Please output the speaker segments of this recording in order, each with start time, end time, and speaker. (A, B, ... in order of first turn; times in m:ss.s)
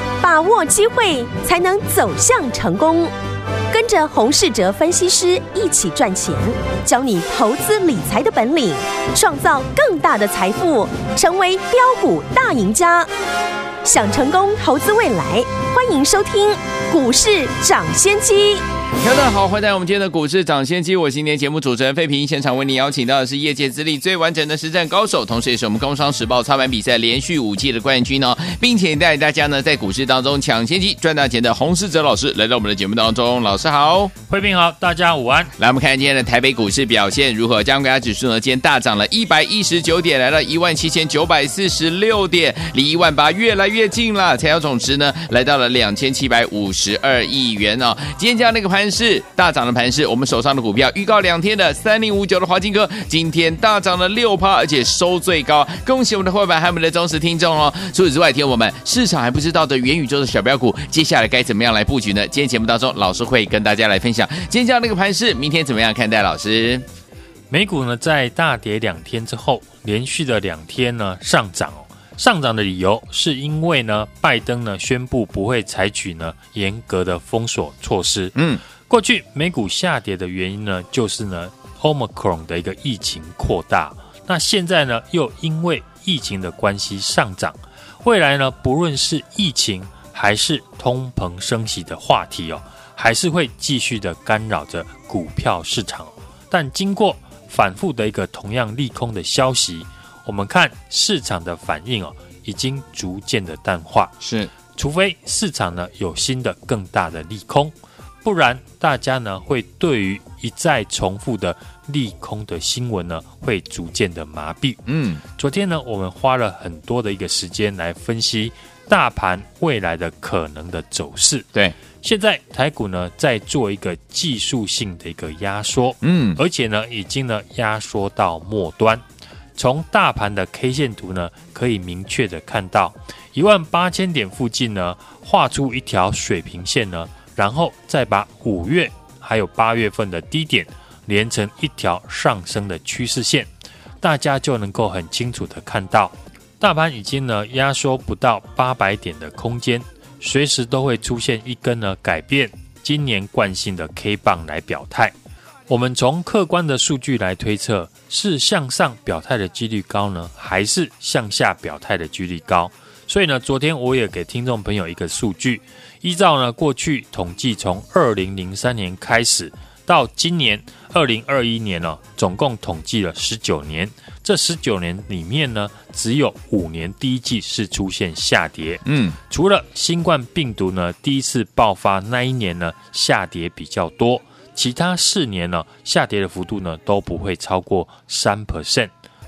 0:00.2-0:03.1 A
0:03.7-0:13.1 A
0:13.8-0:18.6 A
0:19.0-0:34.1 B
0:34.3-0:35.5 C
0:35.6-1:06.9 B
1:07.5-1:44.2 C
1:18.4-1:18.6 B
1:44.2-1:44.5 B
1:44.8-1:54.8 C
1:54.9-1:55.2 B
1:55.4-2:01.5 C
2:02.0-2:09.0 C
2:06.0-2:06.4 B
2:09.6-2:23.5 C
2:24.0-2:35.1 C
2:35.7-3:08.9 C
2:58.9-2:59.2 B